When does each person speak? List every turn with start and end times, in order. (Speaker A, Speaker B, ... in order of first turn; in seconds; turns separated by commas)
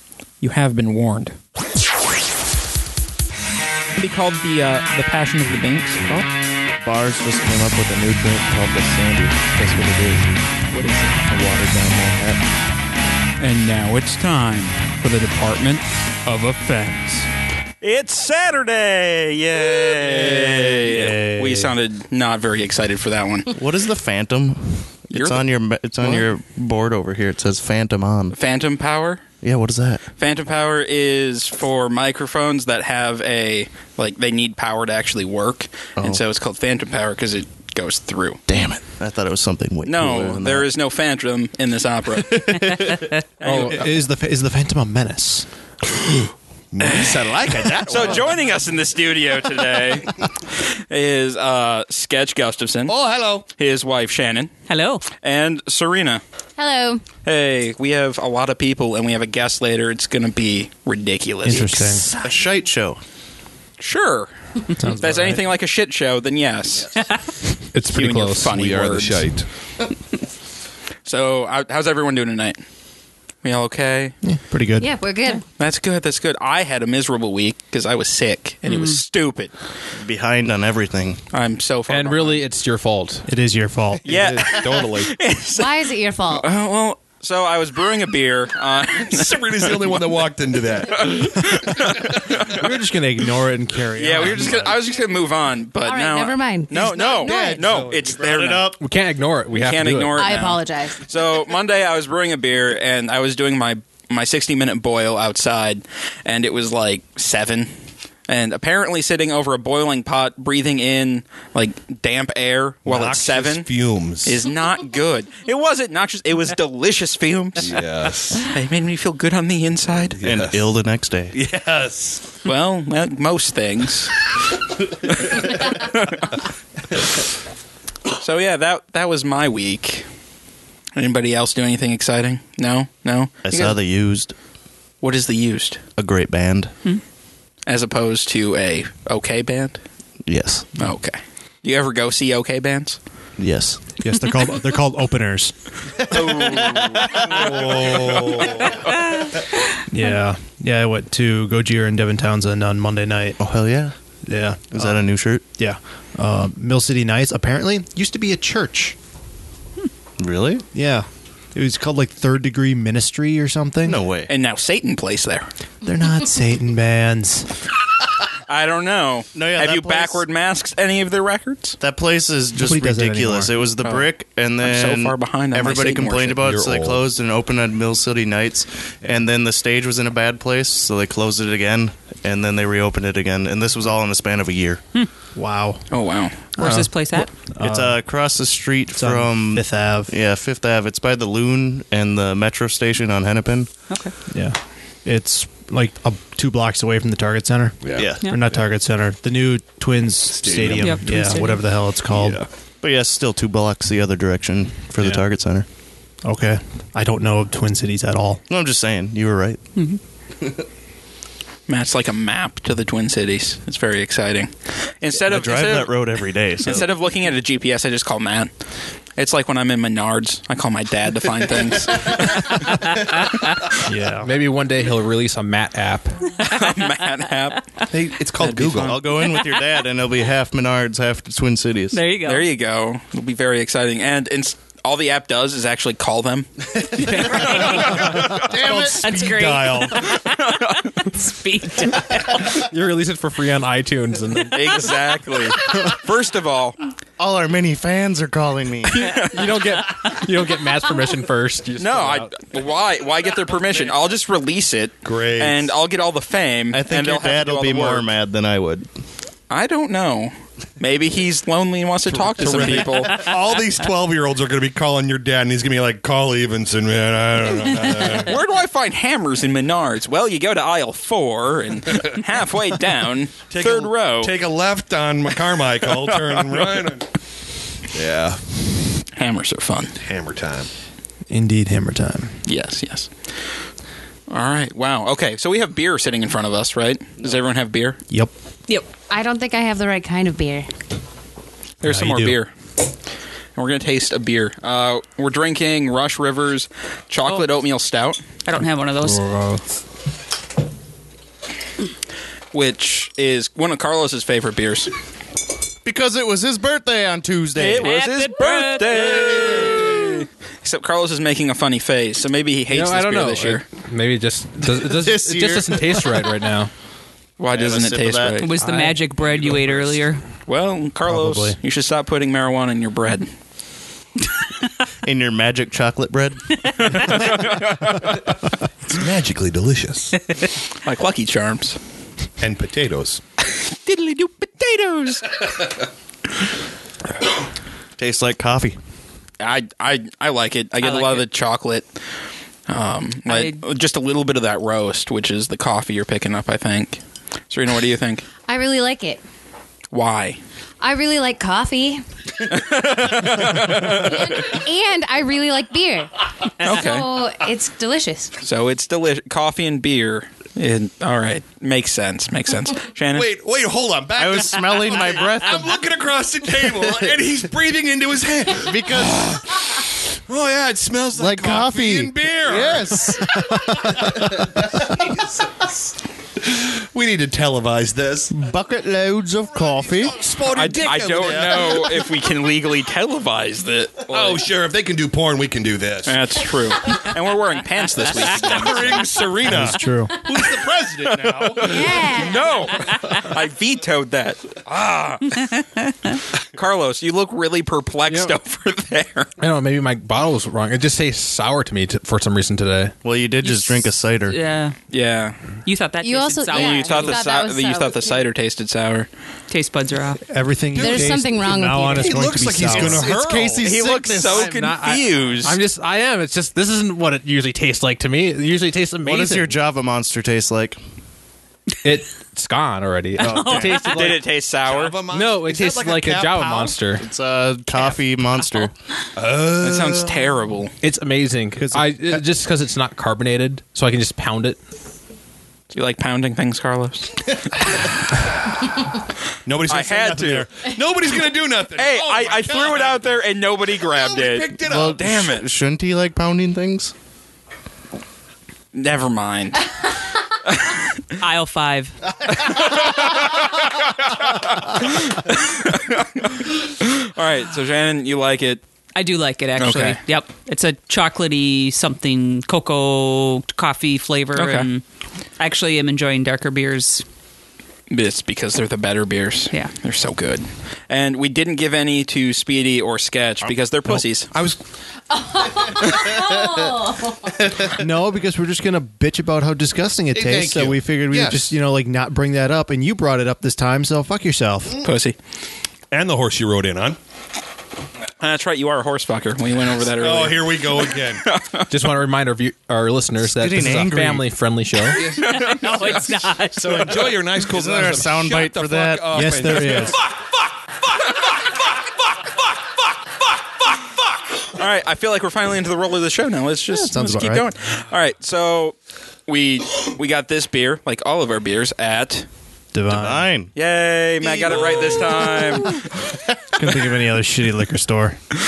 Speaker A: 0.4-1.4, Speaker A: 4.0-6.2, Speaker B: 6.8-10.3, Speaker A: 10.7-11.2, Speaker B: 11.3-12.4, Speaker A: 13.4-17.2, Speaker A: 17.8-23.5, Speaker C: 20.0-21.7, Speaker B: 23.5-28.4, Speaker A: 25.1-25.4, Speaker A: 28.3-29.2, Speaker B: 29.4-30.0, Speaker A: 30.2-38.4, Speaker B: 36.0-36.2, Speaker B: 38.5-40.7, Speaker A: 39.8-43.9, Speaker B: 42.4-43.0, Speaker C: 43.4-45.5, Speaker D: 46.0-48.4, Speaker A: 46.8-47.2, Speaker A: 47.8-54.5, Speaker D: 52.9-53.5, Speaker E: 54.7-55.1, Speaker A: 55.1-56.2, Speaker F: 56.6-57.0, Speaker A: 57.2-62.1, Speaker C: 61.4-62.1, Speaker B: 62.2-63.0, Speaker A: 63.8-66.9, Speaker C: 64.8-65.4, Speaker G: 67.7-68.6, Speaker A: 67.9-69.3, Speaker D: 68.5-69.5, Speaker A: 71.1-72.6, Speaker A: 73.4-74.2, Speaker C: 74.2-74.9, Speaker F: 74.8-75.4, Speaker A: 75.6-79.5, Speaker E: 78.7-79.0, Speaker B: 80.0-81.2, Speaker A: 81.3-82.4, Speaker G: 81.9-83.2, Speaker C: 83.3-84.1, Speaker A: 84.0-90.0, Speaker D: 84.1-85.1, Speaker F: 85.6-86.5, Speaker D: 89.1-92.4, Speaker A: 90.9-92.6, Speaker C: 92.4-94.8, Speaker A: 94.0-98.8, Speaker F: 95.8-97.7, Speaker B: 97.0-98.8, Speaker D: 97.5-98.1, Speaker G: 98.8-100.4, Speaker A: 99.5-107.7, Speaker F: 100.2-101.0, Speaker A: 108.3-113.7, Speaker D: 112.8-114.5, Speaker A: 114.2-117.8, Speaker D: 117.6-118.5, Speaker A: 118.4-120.2, Speaker D: 120.2-120.7, Speaker B: 120.2-121.4, Speaker D: 121.3-122.2, Speaker A: 122.5-124.1, Speaker A: 125.0-126.3, Speaker A: 128.2-130.1, Speaker A: 130.9-133.8, Speaker B: 133.4-134.3, Speaker A: 135.0-135.8, Speaker B: 136.0-136.7, Speaker A: 137.7-139.8, Speaker B: 140.3-140.7, Speaker A: 140.8-143.0, Speaker B: 143.4-143.8, Speaker C: 144.0-145.6, Speaker A: 146.1-148.5, Speaker B: 146.2-147.1, Speaker D: 147.1-148.8, Speaker C: 149.9-153.4, Speaker B: 153.4-153.9, Speaker C: 154.3-155.1, Speaker B: 154.7-155.4, Speaker C: 155.6-158.9, Speaker B: 160.2-160.7, Speaker C: 160.7-164.0, Speaker B: 163.8-164.3, Speaker A: 164.3-165.5, Speaker C: 165.8-167.5, Speaker A: 168.5-171.8, Speaker B: 169.3-170.2, Speaker B: 171.8-184.8, Speaker C: 172.6-173.5, Speaker A: 174.6-176.4, Speaker D: 176.4-177.0, Speaker C: 185.4-185.8, Speaker A: 185.9-186.5, Speaker E: 186.6-187.3, Speaker C: 186.6-186.9, Speaker C: 187.5-188.0, Speaker B: 187.6-193.7, Speaker C: 189.0-190.2, Speaker E: 193.9-194.1, Speaker C: 194.3-202.4, Speaker D: 197.8-198.2, Speaker B: 197.9-198.3, Speaker D: 200.4-201.4, Speaker E: 200.8-201.6, Speaker D: 202.1-202.5, Speaker B: 202.8-205.7, Speaker C: 206.2-208.4, Speaker B: 208.5-209.6, Speaker B: 210.4-210.7, Speaker A: 211.7-216.1, Speaker B: 215.1-216.9, Speaker A: 216.6-218.5, Speaker A: 219.2-222.7, Speaker C: 223.8-224.3, Speaker G: 224.2-226.2, Speaker A: 226.4-227.6, Speaker D: 227.9-229.0, Speaker A: 228.4-229.0, Speaker B: 228.8-232.0, Speaker E: 231.9-232.5, Speaker A: 232.2-238.4, Speaker E: 237.0-238.0, Speaker D: 237.8-239.9, Speaker B: 238.4-239.2, Speaker E: 238.8-240.3, Speaker A: 240.0-240.9, Speaker E: 241.1-242.4, Speaker G: 242.3-245.0, Speaker A: 244.5-246.8, Speaker B: 247.2-249.2, Speaker G: 249.0-252.3, Speaker A: 251.8-258.1, Speaker D: 255.0-255.7, Speaker B: 256.7-258.9, Speaker A: 259.5-263.2, Speaker D: 262.1-268.3, Speaker A: 268.1-274.3, Speaker D: 273.5-277.1, Speaker A: 276.0-276.9, Speaker D: 277.9-278.4, Speaker A: 279.2-279.9, Speaker D: 280.0-280.7, Speaker C: 281.3-282.4, Speaker A: 282.5-283.1, Speaker A: 284.3-288.0, Speaker F: 289.1-290.7, Speaker A: 291.8-292.5, Speaker C: 291.8-292.4, Speaker A: 293.6-298.2, Speaker E: 298.4-299.2, Speaker C: 299.0-299.6, Speaker A: 302.5-304.9, Speaker B: 305.8-307.9, Speaker A: 307.6-313.6, Speaker E: 307.8-310.2, Speaker G: 312.7-316.7, Speaker B: 314.7-316.2, Speaker A: 317.4-318.5, Speaker B: 317.5-318.4, Speaker E: 318.4-320.3, Speaker G: 318.6-319.0, Speaker D: 319.2-319.9, Speaker A: 320.4-323.3, Speaker C: 321.1-321.6, Speaker B: 325.0-326.7, Speaker A: 327.3-327.7, Speaker D: 327.5-328.2, Speaker D: 328.9-330.2, Speaker A: 330.8-331.8, Speaker D: 332.4-333.2, Speaker A: 333.6-335.4, Speaker B: 338.0-338.8, Speaker A: 339.4-341.9, Speaker E: 340.8-341.2, Speaker A: 342.7-348.3, Speaker E: 343.3-343.6, Speaker F: 348.5-349.2, Speaker A: 349.9-350.4, Speaker F: 350.8-352.0, Speaker A: 352.5-354.5, Speaker F: 353.6-358.4, Speaker A: 356.6-357.1, Speaker A: 358.4-363.3, Speaker D: 363.1-373.2, Speaker B: 364.2-365.8, Speaker B: 366.6-367.2, Speaker B: 368.6-369.4, Speaker B: 371.1-375.2, Speaker D: 374.1-375.7, Speaker D: 376.4-378.3, Speaker B: 378.3-380.2, Speaker D: 380.1-382.0, Speaker A: 380.5-384.5, Speaker D: 384.1-386.2, Speaker A: 386.1-389.1, Speaker E: 388.3-388.6, Speaker D: 388.4-391.8, Speaker C: 389.4-390.2, Speaker A: 391.0-395.5, Speaker F: 391.6-392.7, Speaker E: 395.6-395.9, Speaker A: 396.6-399.3, Speaker G: 398.1-398.4, Speaker G: 399.4-403.0, Speaker B: 403.0-404.4, Speaker E: 403.4-404.8, Speaker A: 404.9-405.4, Speaker E: 405.6-407.3, Speaker F: 406.0-408.2, Speaker A: 406.5-409.1, Speaker E: 409.5-410.2, Speaker C: 410.3-413.1, Speaker D: 410.7-413.6, Speaker F: 410.8-412.3, Speaker B: 412.7-414.5, Speaker A: 413.6-415.6, Speaker G: 414.2-419.6, Speaker B: 419.0-420.8, Speaker G: 421.8-423.9, Speaker B: 423.2-423.8, Speaker E: 423.2-424.2, Speaker A: 423.7-424.9, Speaker D: 424.6-426.6, Speaker G: 425.1-427.1, Speaker B: 426.3-428.7, Speaker D: 429.2-430.2, Speaker A: 429.6-430.7, Speaker G: 430.8-434.6, Speaker C: 431.6-432.2, Speaker A: 435.7-437.9, Speaker D: 439.5-443.0, Speaker A: 439.7-440.5, Speaker A: 441.8-445.5, Speaker D: 443.9-445.1, Speaker B: 444.6-446.9, Speaker A: 448.7-449.7, Speaker A: 450.4-451.0, Speaker E: 451.2-452.0, Speaker A: 452.3-458.6, Speaker E: 458.9-464.8, Speaker A: 459.6-460.0, Speaker A: 464.4-464.7, Speaker E: 465.4-467.0, Speaker A: 467.9-474.3, Speaker D: 473.9-474.6, Speaker F: 475.1-477.2, Speaker C: 477.7-484.9, Speaker D: 480.1-481.5, Speaker A: 484.8-485.2, Speaker D: 485.9-487.0, Speaker A: 488.2-491.7, Speaker D: 490.0-491.3, Speaker G: 491.7-495.1, Speaker B: 493.2-494.3, Speaker D: 495.0-495.9, Speaker E: 495.1-497.2, Speaker A: 495.2-495.9, Speaker D: 496.5-500.1, Speaker B: 496.8-499.3, Speaker C: 499.1-500.0, Speaker A: 504.5-508.8, Speaker C: 506.7-507.5, Speaker A: 509.3-512.3, Speaker C: 512.7-513.3, Speaker B: 512.9-513.5, Speaker A: 513.5-515.8, Speaker B: 514.4-514.8, Speaker D: 514.6-514.9, Speaker C: 516.5-518.2